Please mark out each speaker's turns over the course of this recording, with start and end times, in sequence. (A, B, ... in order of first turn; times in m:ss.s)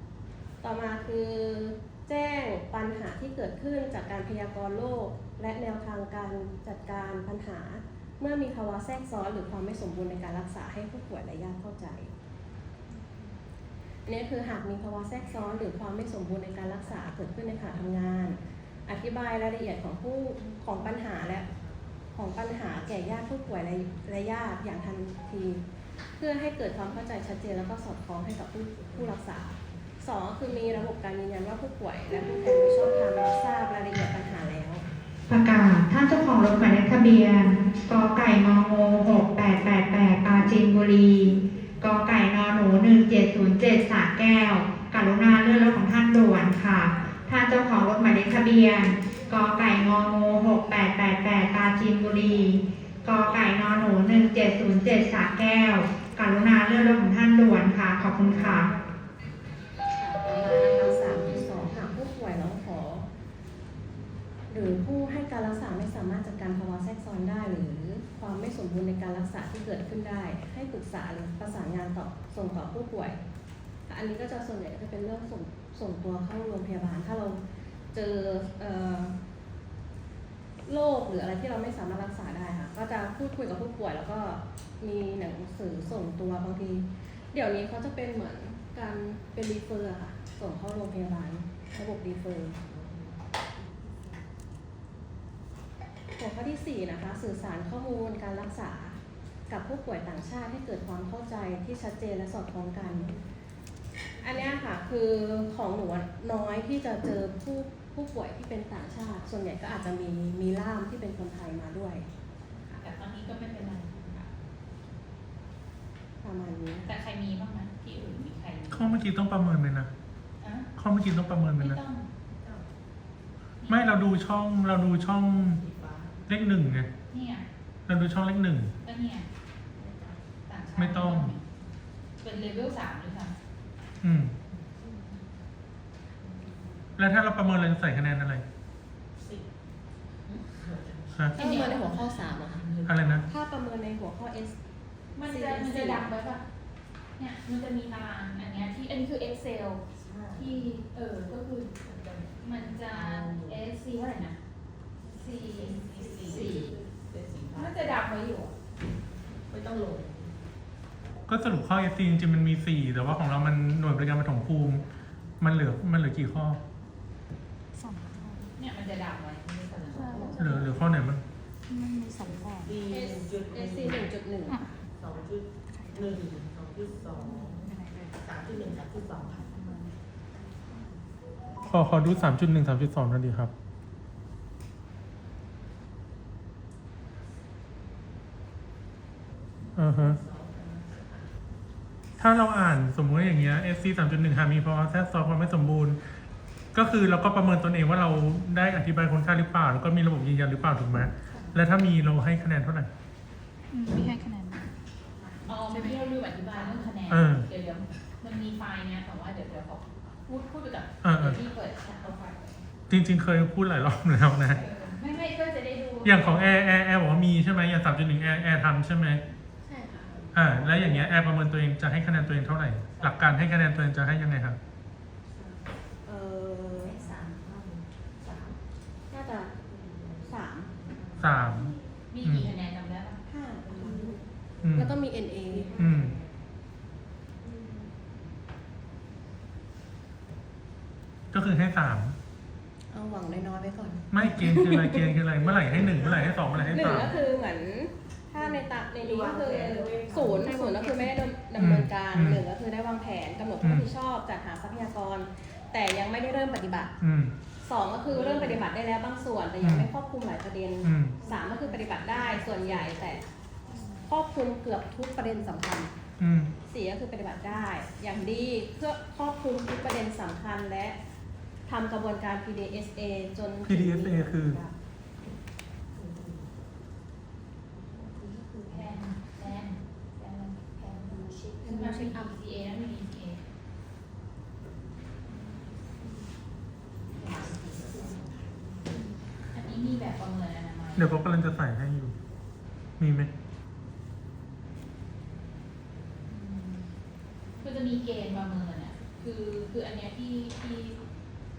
0:00.6-0:12.1 A
0:14.1-0:21.5 A
0:22.1-0:25.6 A
0:26.2-0:34.8 A
0:35.3-0:58.7 B
0:58.2-0:58.7 A
0:59.9-1:03.1 A
1:04.5-1:13.2 A
1:13.9-1:17.4 A
1:17.9-1:19.2 A
1:20.7-1:32.6 A
1:32.6-1:34.3 C
1:36.2-1:43.2 A
1:42.8-1:43.2 C
1:44.2-1:52.1 A
1:52.8-1:54.3 D
1:56.2-1:56.9 A
1:56.9-1:59.0 D
1:58.7-1:59.9 E
2:00.4-2:00.7 D
2:00.8-2:01.8 E
2:01.6-2:02.1 D
2:02.3-2:02.7 C
2:03.6-2:03.9 D
2:03.7-2:05.6 E
2:05.2-2:06.8 C
2:06.3-2:06.9 E
2:07.1-2:07.5 D
2:07.9-2:08.7 E
2:08.8-2:09.3 D
2:09.8-2:10.3 C
2:10.5-2:11.4 D
2:10.8-2:11.3 E
2:12.2-2:13.4 D
2:14.0-2:14.4 E
2:14.5-2:15.4 C
2:16.2-2:17.0 C
2:17.0-2:18.4 E
2:19.2-2:19.5 C
2:20.3-2:23.3 C
2:21.4-2:22.6 A
2:21.4-2:22.3 D
2:22.9-2:23.3 E
2:23.3-2:24.6 A
2:25.2-2:26.4 D
2:25.3-2:26.1 A
2:27.2-2:31.8 D
2:29.9-2:30.7 C
2:31.8-2:33.7 C
2:32.4-2:34.4 D
2:35.0-2:38.0 C
2:35.0-2:36.8 D
2:37.5-2:38.6 D
2:39.5-2:40.5 C
2:41.3-2:44.8 E
2:45.4-2:46.6 E
2:47.8-2:48.5 F
2:48.6-2:50.4 D
2:49.7-2:51.2 C
2:49.9-2:50.6 F
2:50.4-2:51.2 E
2:51.7-2:52.8 F
2:52.2-2:54.1 C
2:52.9-2:54.7 A
2:55.0-2:59.7 C
2:55.7-2:56.1 F
2:57.3-2:58.2 F
2:59.5-2:59.9 F
3:00.4-3:02.3 C
3:01.7-3:03.5 E
3:09.6-3:11.4 C
3:09.8-3:10.2 E
3:12.2-3:16.0 E
3:16.7-3:22.9 E
3:23.7-3:24.8 F
3:25.4-3:32.6 D
3:25.7-3:26.1 F
3:27.1-3:27.5 E
3:31.0-3:31.4 E
3:32.9-3:34.6 E
3:34.5-3:34.9 C
3:34.5-3:36.8 D
3:36.0-3:39.2 E
3:39.6-3:40.2 A
3:40.0-3:41.1 C
3:40.3-3:44.6 E
3:43.0-3:43.5 C
3:45.3-3:45.7 C
3:46.1-3:47.0 A
3:46.7-3:48.6 C
3:49.1-3:49.5 A
3:49.6-3:51.8 C
3:50.2-3:50.7 A
3:51.2-3:52.5 E
3:52.1-3:53.2 D
3:53.3-3:54.2 A
3:53.6-3:56.5 C
3:54.6-3:55.0 E
3:54.8-3:55.8 A
3:55.8-3:56.1 E
3:57.4-3:57.9 C
4:01.3-4:02.2 E
4:02.9-4:05.2 A
4:04.1-4:07.1 E
4:05.4-4:07.2 C
4:06.5-4:17.0 A
4:08.4-4:11.2 C
4:11.6-4:12.4 E
4:13.6-4:13.9 E
4:17.0-4:17.3 E
4:17.6-4:23.2 A
4:18.1-4:18.6 C
4:19.6-4:19.9 E
4:20.8-4:21.2 E
4:21.2-4:23.2 C
4:23.8-4:24.0 C
4:24.1-4:25.9 A
4:26.2-4:26.5 E
4:26.7-4:31.0 A
4:31.7-4:34.7 A
4:33.6-4:34.6 E
4:35.9-4:36.6 C
4:37.8-4:39.2 C
4:38.6-4:43.4 D
4:41.1-4:41.6 C
4:41.6-4:42.3 A
4:47.2-4:48.2 D
4:47.3-4:49.1 C
4:49.5-4:51.2 D
4:51.0-4:52.2 E
4:53.0-4:53.3 E
4:56.3-4:56.9 D
4:57.6-5:01.0 D